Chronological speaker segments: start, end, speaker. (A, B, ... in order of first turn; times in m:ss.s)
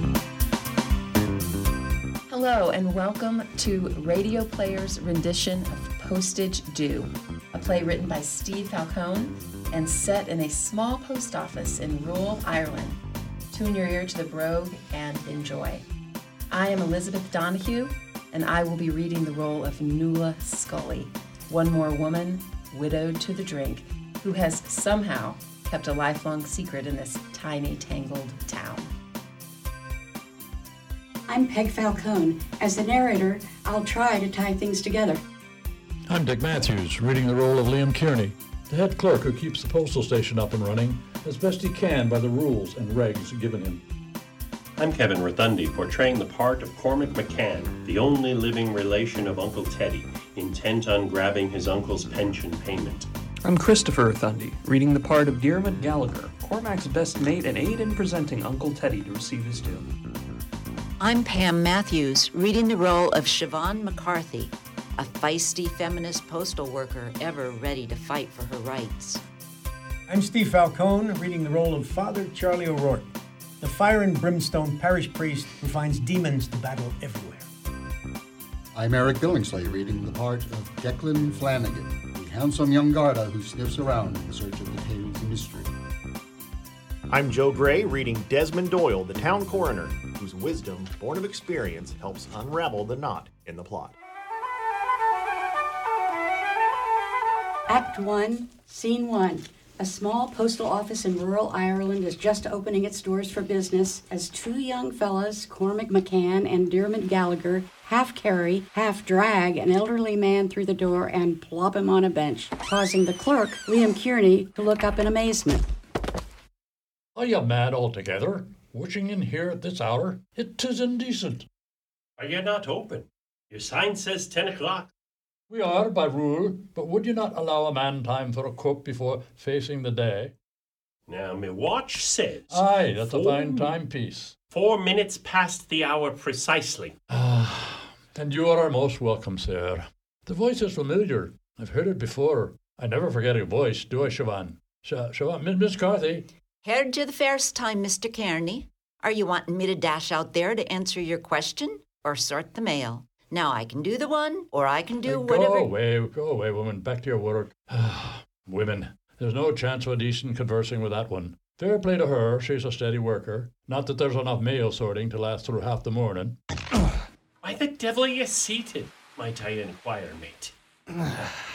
0:02.3-0:13.0 A
0:13.5-0:15.8 A
0:16.5-0:28.9 A
0:31.3-0:35.2 B
0:36.1-0:43.8 C
0:44.8-0:53.1 D
0:53.4-0:59.9 E
1:01.0-1:09.2 F
1:10.1-1:13.1 G
1:13.6-1:17.5 G
1:18.7-1:25.7 H
1:27.1-1:34.0 I
1:37.7-1:55.6 B
1:57.2-2:01.5 C
2:02.2-2:04.9 D
2:05.5-2:10.3 C
2:11.1-2:13.8 D
2:12.5-2:14.3 C
2:14.5-2:16.9 D
2:17.1-2:26.3 C
2:26.6-2:35.7 F
2:35.0-2:46.4 C
2:47.4-2:50.5 D